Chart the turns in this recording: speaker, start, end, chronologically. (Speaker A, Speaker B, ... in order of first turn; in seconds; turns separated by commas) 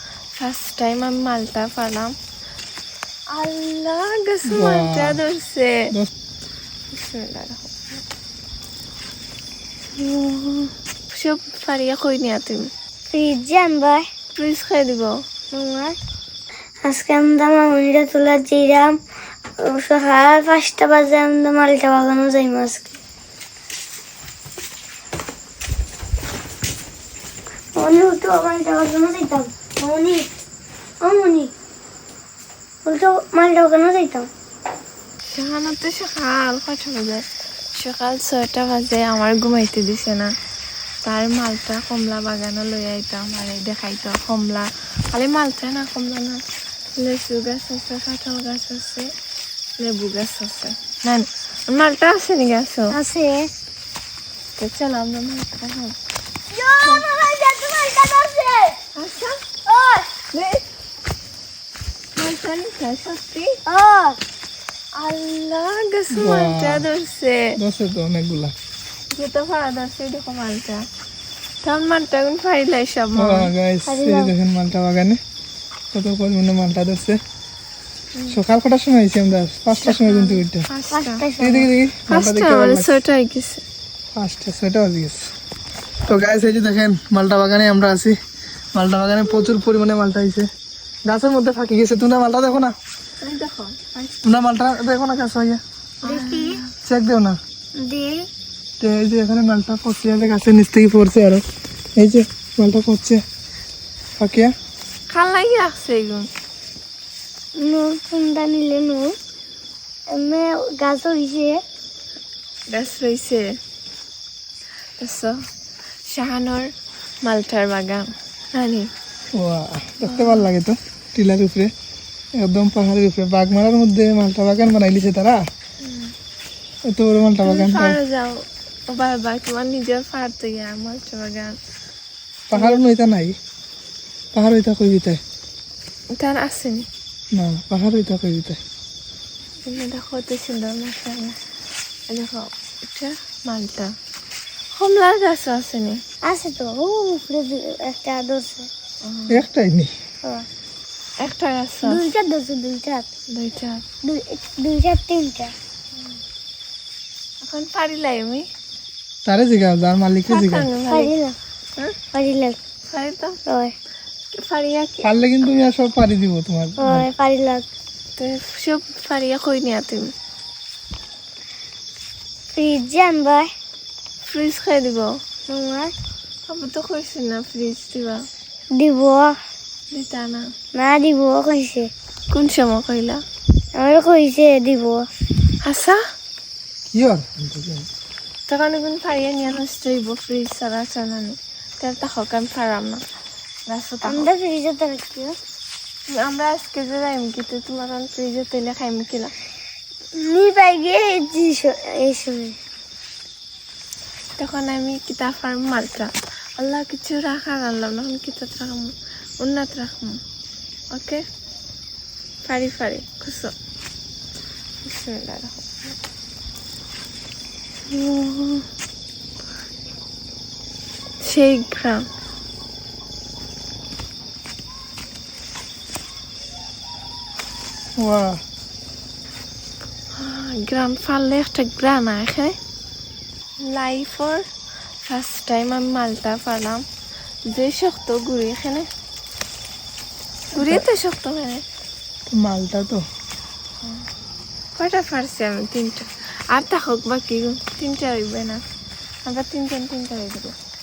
Speaker A: 0.3-2.1, Speaker A: 3.3-5.9, Speaker B: 4.5-5.2, Speaker A: 6.9-8.0, Speaker C: 10.0-10.7, Speaker A: 11.1-12.7, Speaker C: 13.1-14.0, Speaker A: 14.3-15.2, Speaker C: 15.5-16.0, Speaker C: 16.8-18.9, Speaker C: 19.6-23.0, Speaker C: 27.8-30.3, Speaker C: 31.0-31.5, Speaker C: 32.8-34.3, Speaker A: 35.3-40.3, Speaker A: 41.0-46.4, Speaker A: 47.0-49.1, Speaker A: 49.8-52.9, Speaker C: 53.0-53.5, Speaker A: 54.6-56.0, Speaker C: 56.5-58.8, Speaker A: 59.0-59.5, Speaker C: 59.6-60.1, Speaker A: 60.3-60.6, Speaker A: 62.1-63.5, Speaker C: 63.7-64.2, Speaker A: 65.0-67.5, Speaker B: 66.1-66.9, Speaker B: 67.6-68.5, Speaker A: 69.1-70.8, Speaker A: 71.6-73.5, Speaker B: 73.2-75.2, Speaker C: 73.9-74.3, Speaker B: 75.9-77.2, Speaker B: 78.3-80.7, Speaker A: 79.7-81.2, Speaker C: 80.9-81.7, Speaker B: 81.4-83.0, Speaker A: 82.1-83.6, Speaker B: 84.1-85.2, Speaker B: 86.1-88.2, Speaker B: 88.7-90.5, Speaker B: 91.0-92.7, Speaker A: 93.2-94.2, Speaker B: 94.2-95.6, Speaker A: 96.0-96.7, Speaker C: 96.0-96.6, Speaker B: 96.8-97.4, Speaker C: 97.8-98.2, Speaker B: 98.8-101.4, Speaker B: 102.0-103.2, Speaker B: 104.2-104.5, Speaker A: 105.1-106.3, Speaker C: 107.6-109.1, Speaker C: 110.1-111.6, Speaker A: 112.7-113.5, Speaker A: 115.0-115.4, Speaker A: 116.0-116.7, Speaker A: 117.2-118.9, Speaker B: 119.3-121.7, Speaker A: 120.0-120.5, Speaker B: 122.4-125.4, Speaker A: 125.8-126.1, Speaker B: 126.8-128.0, Speaker A: 127.4-131.6, Speaker B: 132.5-133.3, Speaker A: 132.5-132.8, Speaker B: 134.3-135.2, Speaker A: 136.2-136.9, Speaker B: 137.3-138.6, Speaker A: 139.6-141.4, Speaker A: 142.1-143.9, Speaker A: 144.7-146.0, Speaker C: 146.2-148.7, Speaker A: 149.0-149.4, Speaker B: 149.3-149.9, Speaker A: 151.2-152.1, Speaker C: 151.8-153.1, Speaker A: 153.3-153.8, Speaker C: 154.0-155.5, Speaker A: 157.4-158.4, Speaker B: 159.2-160.7, Speaker A: 160.3-161.1, Speaker C: 160.9-161.3, Speaker C: 162.1-162.6, Speaker A: 162.9-163.3, Speaker C: 163.5-163.7, Speaker A: 164.3-165.1, Speaker B: 165.0-167.1, Speaker C: 166.8-167.7, Speaker A: 168.2-170.1, Speaker C: 172.5-173.5, Speaker A: 174.2-175.1, Speaker C: 175.5-175.9, Speaker A: 176.5-178.3, Speaker C: 178.7-179.3, Speaker A: 179.9-180.5, Speaker C: 180.7-181.9, Speaker A: 182.3-183.2, Speaker C: 183.8-185.0, Speaker A: 185.6-186.0, Speaker B: 186.9-187.9, Speaker A: 188.5-193.0, Speaker A: 193.7-194.3, Speaker C: 194.0-195.4, Speaker A: 196.1-199.3, Speaker C: 200.2-202.6, Speaker A: 204.4-210.2, Speaker A: 210.9-211.2, Speaker A: 212.4-213.5, Speaker A: 214.8-215.9, Speaker A: 217.9-218.6, Speaker A: 221.2-222.1, Speaker B: 228.0-228.4, Speaker A: 230.1-232.6, Speaker A: 233.6-234.4, Speaker A: 235.0-236.8, Speaker A: 237.4-238.9, Speaker A: 240.5-241.6, Speaker B: 240.5-240.8, Speaker B: 242.3-243.0, Speaker A: 244.7-248.6, Speaker A: 249.2-250.5